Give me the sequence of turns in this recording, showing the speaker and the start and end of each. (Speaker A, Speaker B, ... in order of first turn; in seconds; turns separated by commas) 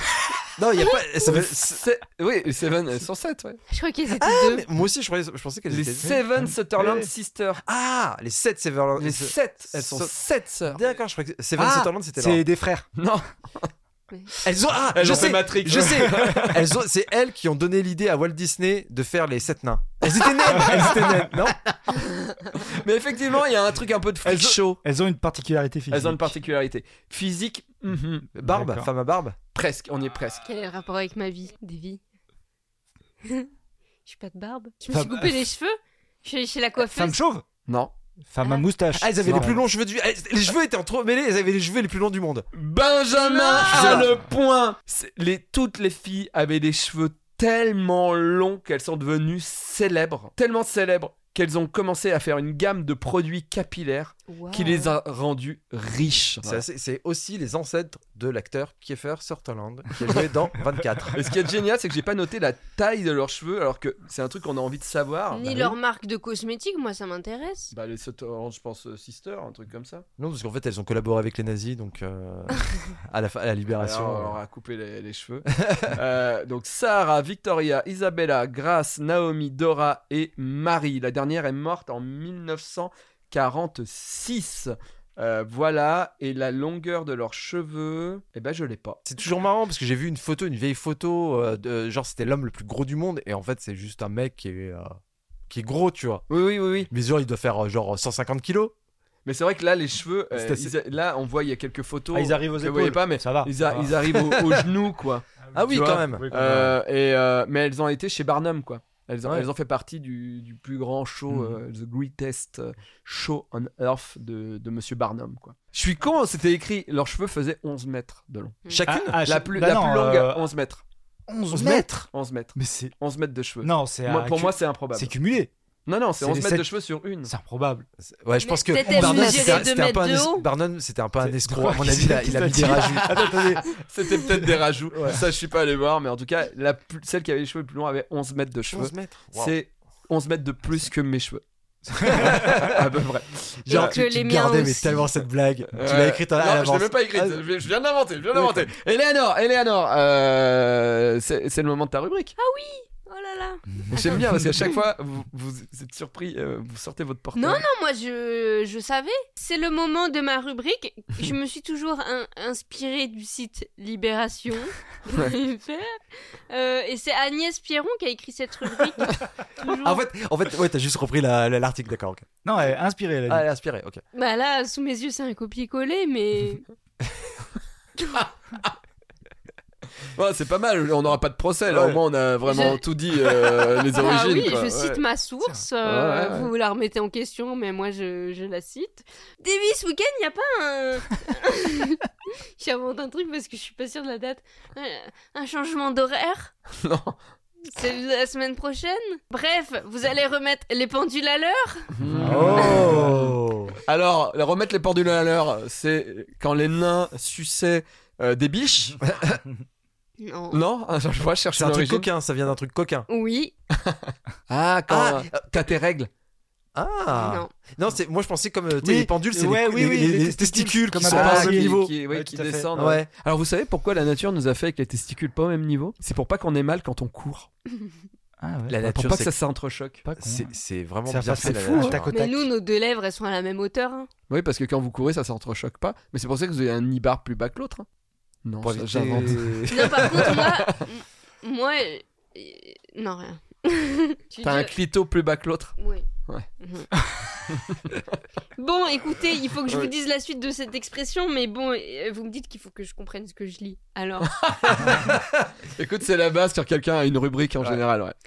Speaker A: 0.6-1.8, Speaker B: 0.8-1.3, Speaker C: 1.3-3.6, Speaker B: 3.7-4.7, Speaker A: 4.2-6.2, Speaker C: 5.7-7.6, Speaker D: 6.0-7.0, Speaker A: 7.6-10.1, Speaker C: 9.0-10.8, Speaker A: 10.7-12.4, Speaker D: 11.6-12.9, Speaker C: 13.0-13.7, Speaker A: 14.4-21.6, Speaker C: 14.9-16.7, Speaker D: 15.8-16.4, Speaker C: 20.4-20.9, Speaker D: 20.6-21.2, Speaker C: 22.6-24.8, Speaker D: 24.2-26.3, Speaker C: 25.9-28.3, Speaker A: 28.4-29.4, Speaker D: 28.4-28.9, Speaker C: 29.5-30.4, Speaker B: 30.4-32.0, Speaker B: 33.2-33.5, Speaker B: 34.0-37.2, Speaker D: 34.9-35.5, Speaker D: 36.8-37.5, Speaker C: 37.7-37.9, Speaker D: 38.3-39.6, Speaker A: 39.0-42.5, Speaker C: 42.5-56.6, Speaker B: 43.1-44.1, Speaker A: 43.8-44.0, Speaker D: 43.8-44.1, Speaker B: 54.3-55.0, Speaker A: 56.4-61.2, Speaker C: 61.2-65.6, Speaker B: 65.3-67.7, Speaker A: 65.5-65.7, Speaker C: 67.7-70.0, Speaker A: 70.2-74.4, Speaker C: 73.8-89.0, Speaker A: 75.6-76.0, Speaker A: 89.1-95.0, Speaker A: 95.5-96.2, Speaker C: 96.3-96.9, Speaker A: 96.9-98.7, Speaker C: 99.3-118.7, Speaker A: 100.3-100.7, Speaker D: 102.1-104.7, Speaker D: 105.4-106.8, Speaker A: 105.5-106.3, Speaker D: 111.3-111.6, Speaker A: 118.7-119.2, Speaker D: 118.9-120.4, Speaker C: 119.2-120.8, Speaker D: 121.3-122.9, Speaker A: 121.5-121.9, Speaker C: 122.1-125.1, Speaker D: 123.6-125.5, Speaker C: 125.9-127.3, Speaker D: 126.2-126.7, Speaker D: 127.2-127.9, Speaker A: 128.0-133.6, Speaker B: 128.4-130.5, Speaker D: 128.9-129.2, Speaker D: 131.2-133.8, Speaker C: 133.7-141.4, Speaker A: 134.9-135.2, Speaker A: 138.7-139.6, Speaker D: 141.9-142.6, Speaker C: 142.0-144.0, Speaker A: 142.1-142.8, Speaker A: 143.7-147.4, Speaker B: 143.7-145.1, Speaker C: 145.8-152.3, Speaker A: 148.3-148.7, Speaker B: 152.4-154.2, Speaker C: 153.9-157.6, Speaker B: 157.4-170.0, Speaker A: 169.7-172.3, Speaker D: 172.4-173.4, Speaker A: 173.3-174.0, Speaker B: 174.1-176.7, Speaker C: 178.2-178.7, Speaker C: 180.2-185.0, Speaker A: 181.7-182.0, Speaker B: 182.4-182.8, Speaker B: 183.9-192.1, Speaker C: 185.8-186.5, Speaker B: 192.6-196.5, Speaker C: 196.8-197.2, Speaker B: 197.6-201.9, Speaker C: 201.9-203.1, Speaker D: 202.1-203.3, Speaker A: 202.2-203.8, Speaker C: 203.9-209.0, Speaker A: 209.0-209.4, Speaker B: 210.2-210.6, Speaker C: 210.5-212.1, Speaker A: 211.6-213.1, Speaker B: 213.1-213.5, Speaker C: 213.8-216.1, Speaker A: 214.9-215.6, Speaker A: 216.8-221.9, Speaker B: 217.1-217.5, Speaker D: 218.8-222.7, Speaker C: 221.1-227.5, Speaker A: 222.8-223.1, Speaker D: 228.4-229.0, Speaker A: 228.7-229.3, Speaker C: 228.9-230.0, Speaker D: 230.1-230.5, Speaker A: 230.2-232.1, Speaker D: 231.1-232.5, Speaker C: 231.4-231.9, Speaker B: 232.1-234.1, Speaker C: 234.3-237.9, Speaker C: 238.4-240.8, Speaker A: 238.6-240.3, Speaker B: 239.7-244.7, Speaker C: 244.4-245.8, Speaker B: 245.8-246.1, Speaker B: 246.6-246.9, Speaker C: 247.5-248.2, Speaker B: 248.6-254.3, Speaker C: 254.2-258.2